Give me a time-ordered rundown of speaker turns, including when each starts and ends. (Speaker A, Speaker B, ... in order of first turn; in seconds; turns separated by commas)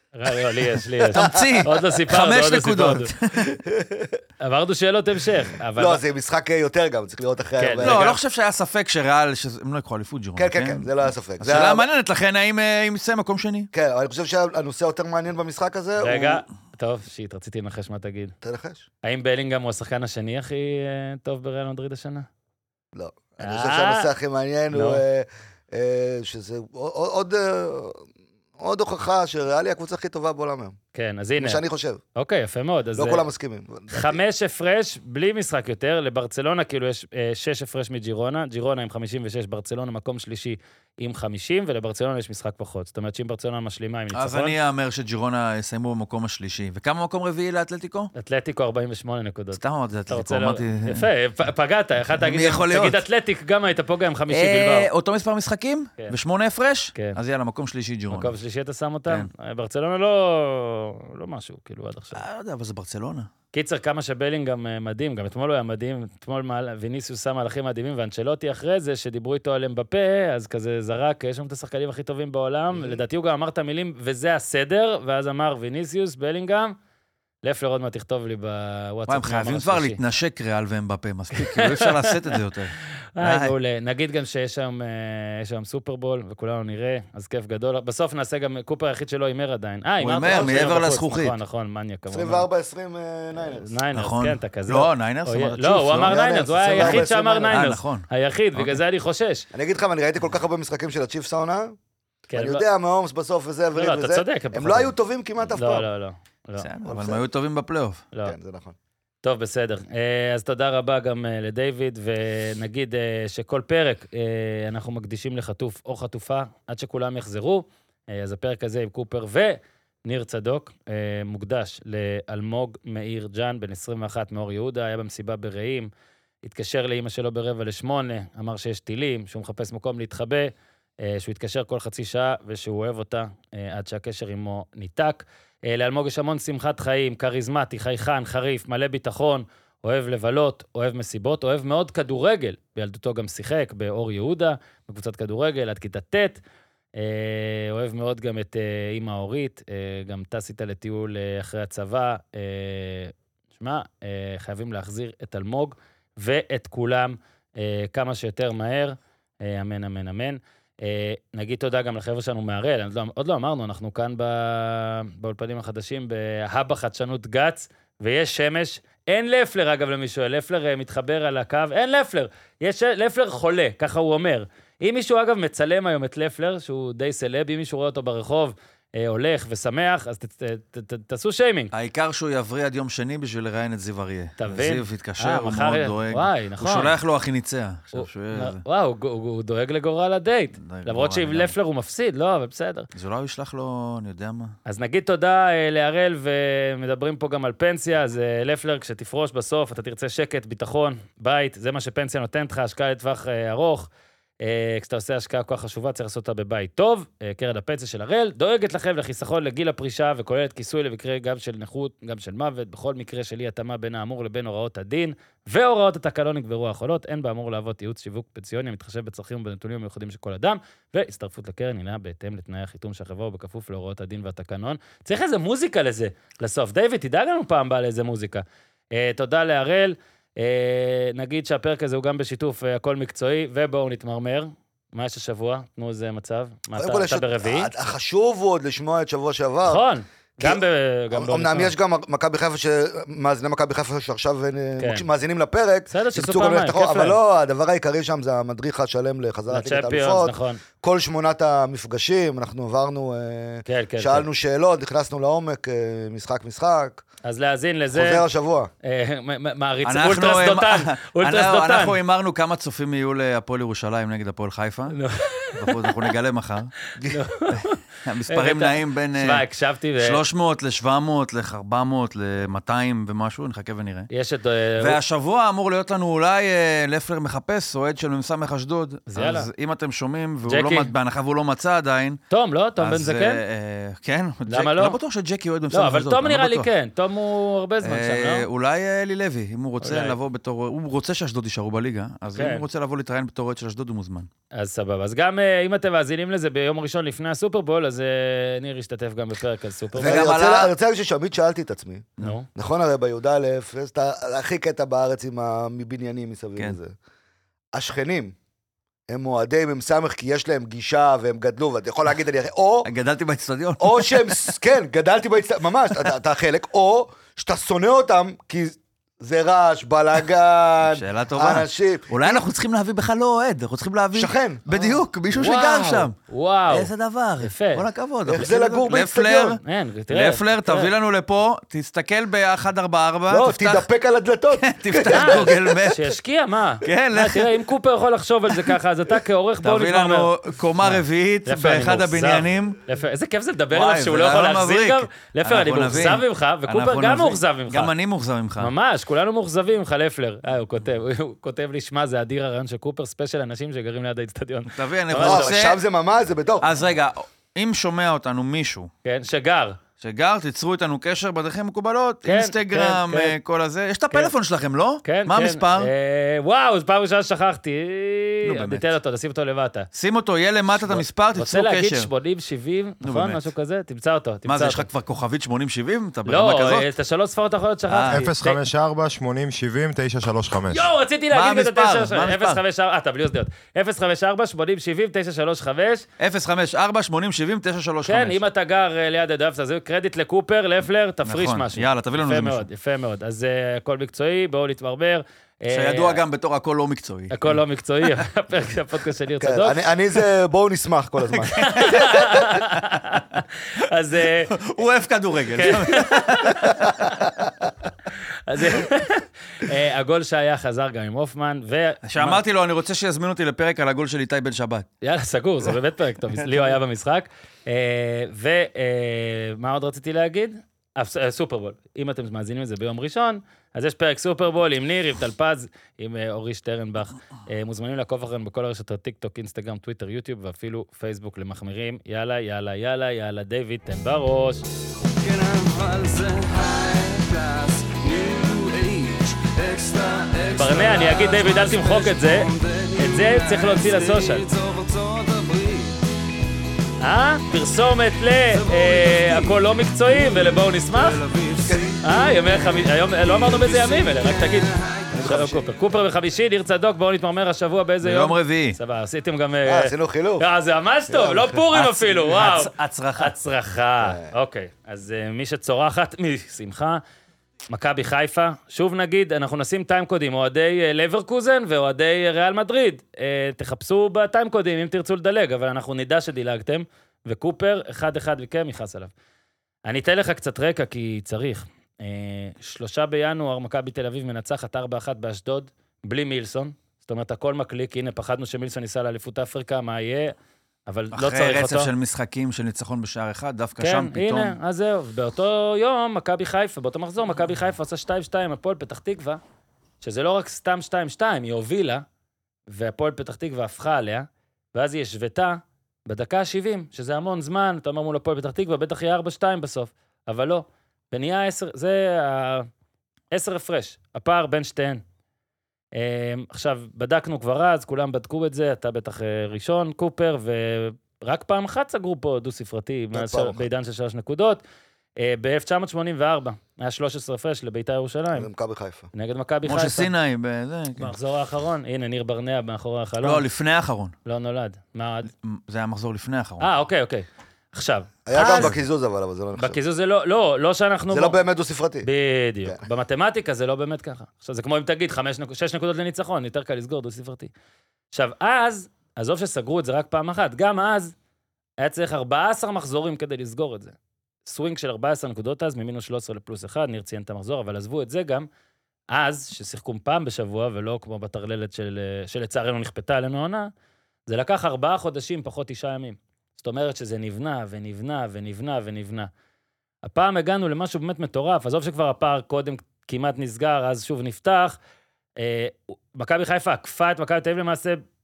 Speaker A: 0.1-3.1, Speaker B: 1.0-1.6, Speaker C: 1.1-3.6, Speaker B: 3.5-4.2, Speaker A: 4.4-6.0, Speaker B: 5.8-8.2, Speaker A: 7.6-8.1, Speaker C: 7.8-10.9, Speaker B: 10.4-11.9, Speaker C: 11.4-13.7, Speaker B: 13.7-16.4, Speaker A: 16.0-18.3, Speaker B: 18.4-18.9, Speaker A: 19.0-22.3, Speaker B: 22.9-28.0, Speaker A: 23.4-24.1, Speaker A: 24.7-25.0, Speaker B: 28.6-30.8, Speaker A: 30.9-31.6, Speaker B: 31.4-32.0, Speaker A: 32.1-33.2, Speaker B: 33.0-34.2, Speaker A: 33.9-44.5, Speaker C: 44.1-48.1, Speaker A: 48.1-54.9, Speaker C: 49.6-51.0, Speaker C: 52.2-53.0, Speaker C: 54.3-58.3, Speaker A: 58.1-62.2, Speaker C: 62.1-63.3, Speaker A: 63.5-76.8, Speaker A: 77.4-80.0, Speaker C: 79.1-83.5, Speaker A: 81.3-82.1, Speaker A: 83.2-92.5, Speaker C: 90.0-91.3, Speaker B: 90.3-90.8, Speaker B: 92.1-93.7, Speaker A: 93.5-99.5, Speaker C: 94.0-96.2, Speaker B: 96.0-97.6, Speaker C: 96.7-98.8, Speaker B: 99.5-101.8, Speaker B: 102.3-105.9, Speaker A: 102.3-102.7, Speaker A: 103.8-104.9, Speaker A: 105.6-106.7, Speaker C: 106.6-108.0, Speaker B: 106.8-107.2, Speaker B: 108.2-108.8, Speaker A: 109.2-125.9, Speaker A: 126.4-146.4, Speaker A: 147.0-181.7, Speaker C: 181.7-188.6, Speaker A: 184.4-186.9, Speaker A: 187.9-192.9, Speaker C: 190.6-191.5, Speaker C: 192.9-194.6, Speaker A: 194.7-203.9, Speaker A: 204.4-237.7, Speaker B: 236.8-239.9, Speaker A: 239.7-241.7, Speaker B: 241.1-257.0, Speaker A: 244.8-245.1, Speaker A: 245.9-247.2, Speaker A: 249.5-250.6, Speaker A: 253.7-254.3, Speaker A: 257.2-258.3, Speaker B: 257.9-258.7, Speaker A: 258.8-262.0, Speaker C: 259.9-264.9, Speaker A: 264.9-265.9, Speaker C: 265.5-266.7, Speaker A: 267.1-270.2, Speaker C: 268.1-269.4, Speaker C: 270.0-274.1, Speaker A: 274.1-275.0, Speaker C: 274.8-282.2, Speaker A: 279.1-279.5, Speaker A: 280.5-280.9, Speaker A: 282.3-283.4, Speaker C: 282.8-286.7, Speaker A: 284.5-285.0, Speaker A: 285.7-288.5, Speaker C: 287.8-294.3, Speaker A: 289.8-290.2, Speaker A: 292.4-292.6, Speaker A: 294.5-300.3, Speaker B: 300.0-306.9, Speaker C: 300.0-300.7, Speaker A: 302.2-302.5, Speaker B: 307.7-308.4, Speaker B: 309.1-312.9, Speaker C: 312.9-314.5, Speaker B: 313.8-322.4, Speaker C: 320.8-326.1, Speaker B: 324.1-324.7, Speaker A: 324.7-326.9, Speaker C: 326.7-333.8, Speaker A: 327.4-327.9, Speaker B: 328.3-329.6, Speaker A: 329.6-330.9, Speaker B: 333.3-335.7, Speaker C: 334.6-336.1, Speaker A: 335.1-347.9, Speaker C: 336.8-337.5, Speaker C: 339.6-342.8, Speaker C: 343.7-348.7, Speaker A: 348.6-355.6, Speaker C: 354.7-355.8, Speaker B: 355.2-356.7, Speaker C: 356.6-358.9, Speaker A: 359.1-359.8, Speaker C: 360.0-365.9, Speaker A: 362.2-363.4, Speaker A: 365.0-369.9, Speaker C: 368.4-368.9, Speaker C: 369.9-372.1, Speaker A: 370.7-374.9, Speaker C: 373.0-373.4, Speaker C: 374.4-376.9, Speaker A: 376.3-378.6, Speaker C: 377.9-378.3, Speaker D: 378.1-380.9, Speaker A: 380.7-386.1, Speaker C: 381.3-382.6, Speaker C: 386.2-388.4, Speaker A: 388.1-396.2, Speaker C: 391.3-392.6, Speaker C: 395.7-397.6, Speaker A: 397.3-399.8, Speaker B: 399.4-402.0, Speaker C: 401.5-403.0, Speaker A: 401.6-404.6, Speaker C: 404.5-407.0, Speaker A: 405.5-407.3, Speaker A: 408.5-412.4, Speaker C: 412.1-414.9, Speaker A: 415.0-434.7, Speaker E: 435.1-446.0, Speaker A: 440.6-444.4, Speaker A: 447.0-451.2, Speaker E: 448.5-455.6, Speaker A: 452.0-467.0, Speaker B: 455.1-455.6, Speaker C: 458.0-458.8, Speaker B: 459.6-460.5, Speaker B: 461.1-461.6, Speaker C: 461.7-463.3, Speaker B: 464.0-464.3, Speaker A: 467.7-479.1, Speaker A: 479.9-490.3, Speaker A: 490.9-491.9, Speaker C: 491.1-494.6, Speaker A: 493.8-499.4, Speaker A: 500.0-502.0, Speaker A: 502.7-512.7, Speaker A: 513.3-515.0, Speaker A: 515.9-524.6, Speaker B: 523.1-523.6, Speaker A: 525.2-528.5, Speaker B: 528.4-529.1, Speaker A: 529.1-530.1, Speaker C: 529.7-531.1, Speaker A: 531.0-533.5, Speaker C: 533.2-534.1, Speaker A: 534.3-535.3, Speaker C: 535.3-536.7, Speaker A: 536.6-538.8, Speaker B: 538.3-539.8, Speaker A: 539.6-541.4, Speaker B: 541.1-542.1, Speaker A: 542.0-547.5, Speaker A: 548.1-551.1, Speaker A: 551.8-558.5, Speaker A: 559.1-563.7, Speaker A: 564.3-569.3, Speaker A: 570.0-574.8, Speaker A: 575.4-578.0